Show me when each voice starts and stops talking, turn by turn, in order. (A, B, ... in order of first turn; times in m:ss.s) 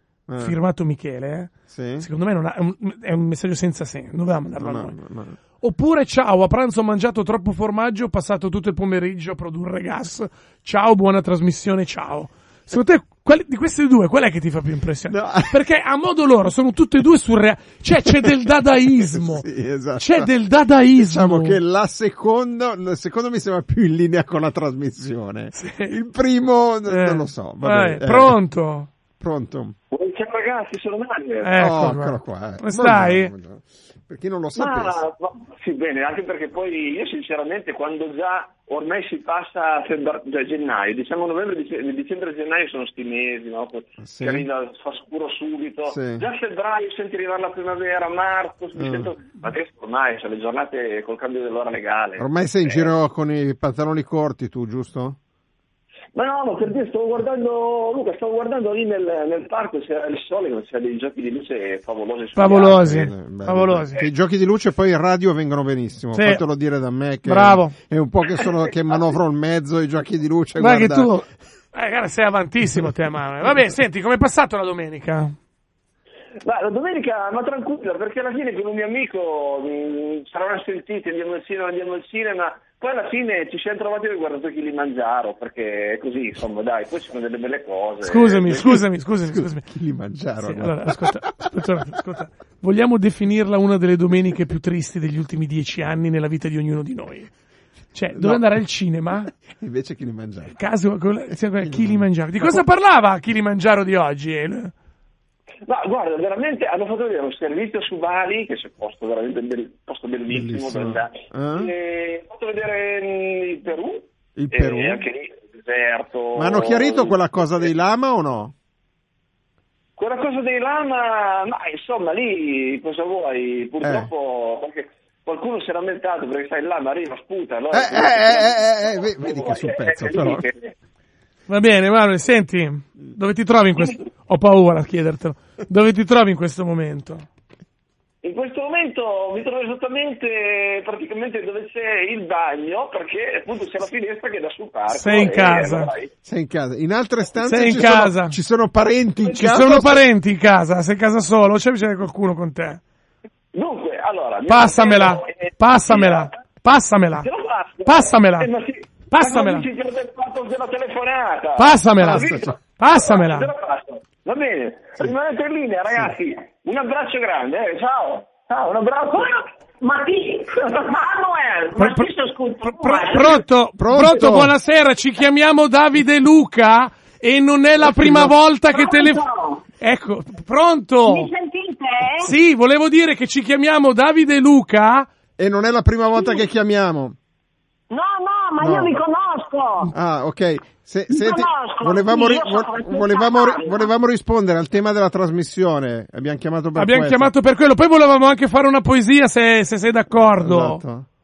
0:00.3-0:00.6 A
0:00.4-0:05.0 B
0:01.7-0:02.1 A
0:04.6-0:05.4 A
0:05.6-0:19.5 B
0:15.1-0:15.6 A
0:18.9-0:20.3 A
0:20.0-0:21.6 B
0:21.0-0:28.4 A
0:25.6-0:25.9 B
0:26.9-0:28.9 B
0:29.2-0:29.7 A
0:29.9-0:31.6 C
0:31.4-0:33.3 B
0:31.6-0:35.0 A
0:34.6-0:52.9 C
0:44.0-0:44.5 A
0:45.9-0:46.2 A
0:48.8-0:49.1 A
0:52.2-0:55.2 A
0:56.1-1:02.8 C
1:02.4-1:04.0 B
1:02.7-1:11.2 A
1:06.1-1:06.4 B
1:07.2-1:07.8 B
1:10.6-1:15.4 B
1:16.4-1:28.8 C
1:28.0-1:29.7 B
1:29.2-1:31.1 A
1:30.4-1:37.3 B
1:37.9-1:39.3 B
1:38.1-1:38.4 A
1:39.3-1:40.6 A
1:40.5-1:44.7 B
1:41.6-1:42.6 A
1:45.6-1:57.4 C
1:50.3-1:51.7 A
1:54.4-1:55.0 A
1:56.4-1:58.5 A
2:00.0-2:10.7 C
2:03.8-2:04.1 A
2:07.7-2:10.4 A
2:11.5-2:17.3 B
2:18.2-2:26.1 C
2:24.9-2:25.9 B
2:26.2-2:30.1 A
2:27.4-2:28.4 B
2:29.3-2:32.8 B
2:33.5-2:36.3 C
2:34.5-2:37.3 B
2:37.2-2:49.5 C
2:37.8-2:38.5 B
2:39.1-2:39.6 B
2:41.6-2:43.5 B
2:42.0-2:42.6 A
2:49.8-2:51.2 D
2:50.5-2:52.0 C
2:51.7-2:53.4 D
2:51.7-2:52.1 B
2:52.6-2:59.2 B
2:53.8-2:54.6 A
2:57.8-2:58.3 A
2:58.7-2:59.6 D
2:59.8-3:01.3 B
3:01.0-3:02.3 D
3:02.2-3:05.1 B
3:05.4-3:07.2 A
3:07.9-3:09.9 D
3:08.6-3:09.0 A
3:09.9-3:17.3 A
3:11.1-3:13.9 D
3:16.8-3:20.8 B
3:20.4-3:21.1 A